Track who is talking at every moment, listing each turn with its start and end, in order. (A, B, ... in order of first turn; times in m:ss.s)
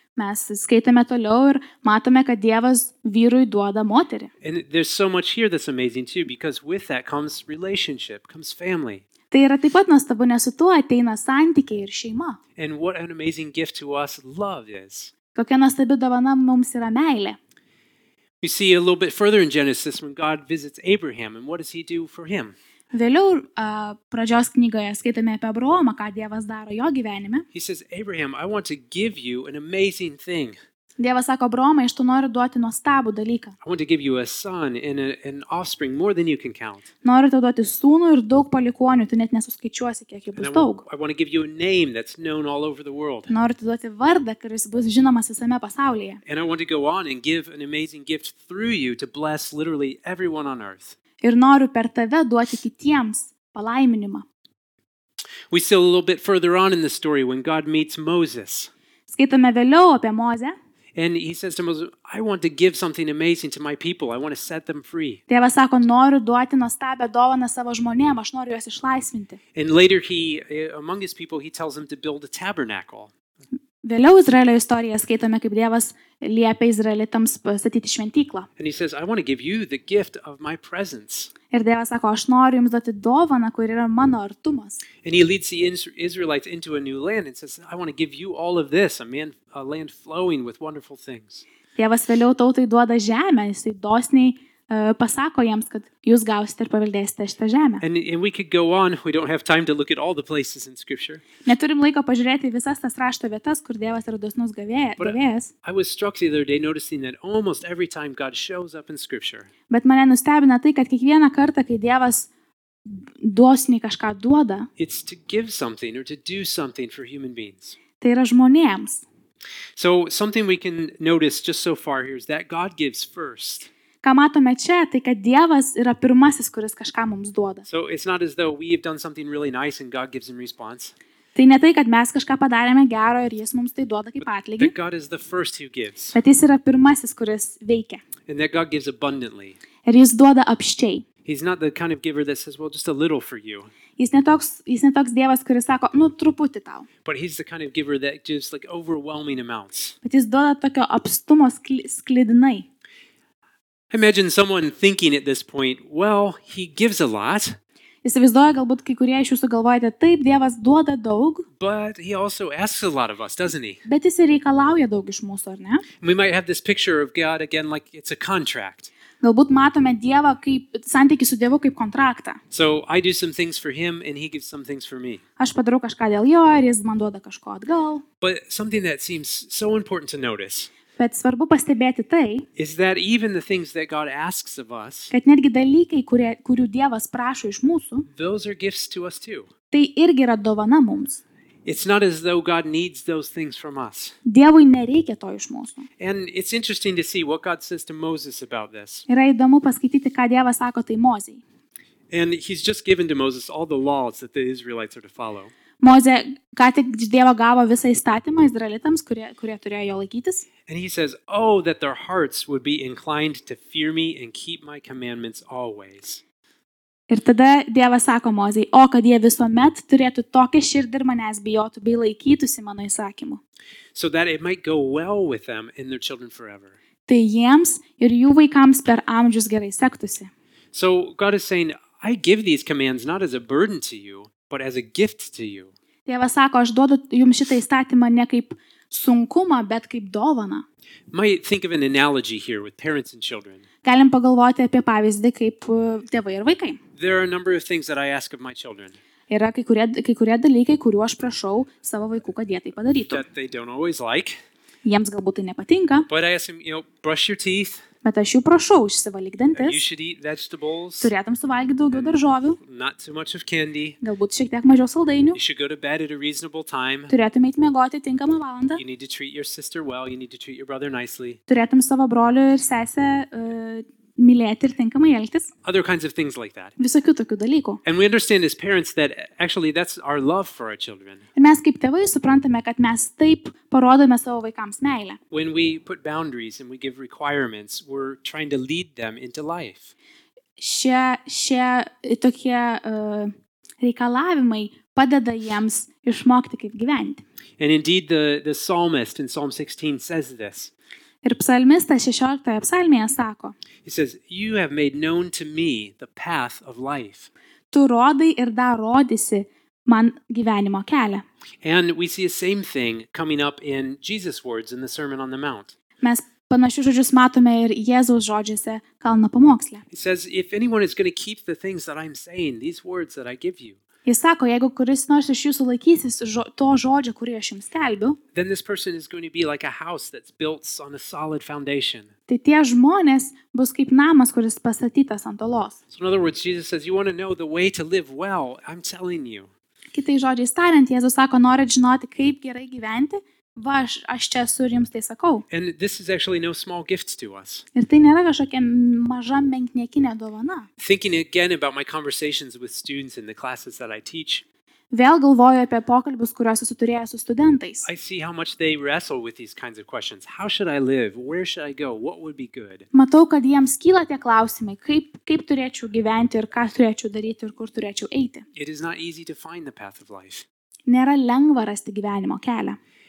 0:00.2-0:04.3 A
0:04.4-0:09.0 B
0:09.3-0:12.4 A
0:12.6-0:15.1 B
0:15.3-0:17.4 A
0:18.4-0:22.6 B
0:22.9-0:27.4 A
0:27.5-0:30.6 B
0:31.0-0:33.6 A
0:33.6-0:36.9 B
0:37.0-0:40.8 A
0:40.4-0:43.3 B
0:43.3-0:46.2 A
0:46.3-0:51.0 B
0:51.2-0:54.3 A
0:55.5-0:58.7 B
0:59.1-1:00.6 A
1:01.0-1:05.2 B
1:05.3-1:09.4 A
1:09.6-1:13.1 B
1:13.8-1:18.5 A
1:18.6-1:21.3 B
1:21.5-1:24.8 A
1:25.0-1:31.4 B
1:31.8-1:37.8 A
1:37.8-1:41.2 B
1:41.4-1:45.5 A
1:45.0-1:49.5 B
1:49.7-1:52.3 A
1:52.9-1:54.7 A
1:54.8-1:57.8 B
1:58.0-1:59.0 A
1:59.8-2:03.7 B
2:04.0-2:07.6 A
2:07.7-2:10.9 B
2:11.4-2:14.7 A
2:14.6-2:16.2 B
2:16.1-2:18.0 A
2:18.3-2:19.6 B
2:19.8-2:21.1 A
2:21.2-2:23.7 B
2:24.0-2:26.9 A
2:27.0-2:30.0 B
2:30.0-2:32.7 A
2:33.9-2:37.6 B
2:38.0-2:41.5 A
2:41.6-2:43.8 B
2:43.8-2:45.8 A
2:46.0-2:48.9 B
2:49.2-2:52.4 A
2:52.5-2:55.2 B
2:55.4-2:58.0 A
2:58.2-3:00.7 B
3:01.0-3:02.5 A
3:02.6-3:05.1 B
3:05.1-3:08.1 A
3:08.1-3:09.5 B
3:09.7-3:11.2 A
3:11.6-3:14.2 B
3:14.2-3:15.9 A
3:16.0-3:19.1 B
3:19.1-3:21.4 A
3:22.1-3:25.5 B
3:25.8-3:30.5 A
3:30.7-3:36.2 B
3:37.1-3:43.4 A
3:43.9-3:46.8 B
3:47.1-3:50.3 A
3:50.7-3:55.7 B
3:56.1-4:00.6 A
4:01.1-4:03.6 B
4:03.8-4:06.8 A
4:07.0-4:09.0 B
4:09.3-4:13.2 A
4:13.1-4:14.4 B
4:14.8-4:16.1 A
4:16.1-4:17.8 B
4:18.0-4:19.8 A
4:19.6-4:21.1 B
4:21.0-4:22.6 A
4:21.9-4:24.0 B
4:24.0-4:25.4 A
4:25.3-4:27.1 B
4:27.1-4:28.8 A
4:28.8-4:31.4 B
4:31.5-4:35.5 A
4:35.6-4:36.8 B
4:36.8-4:37.8 A
4:37.8-4:41.2 B
4:41.4-4:45.2 A
4:45.3-4:49.9 B
4:50.6-4:57.2 A
4:57.6-5:00.7 B
5:01.2-5:03.6 A
5:03.8-5:07.3 B
5:07.7-5:11.2 A
5:11.6-5:15.7 B
5:16.0-5:19.8 A
5:19.9-5:23.8 B
5:24.0-5:28.2 A
5:28.4-5:32.1 B
5:32.3-5:35.8 A
5:35.9-5:39.5 B
5:39.9-5:45.4 A
5:45.5-5:47.7 B
5:47.8-5:50.7 A
5:50.8-5:54.4 B
5:54.9-5:57.9 A
5:57.8-6:02.9 B
6:02.9-6:08.4 A
6:08.6-6:10.4 B
6:10.9-6:12.8 A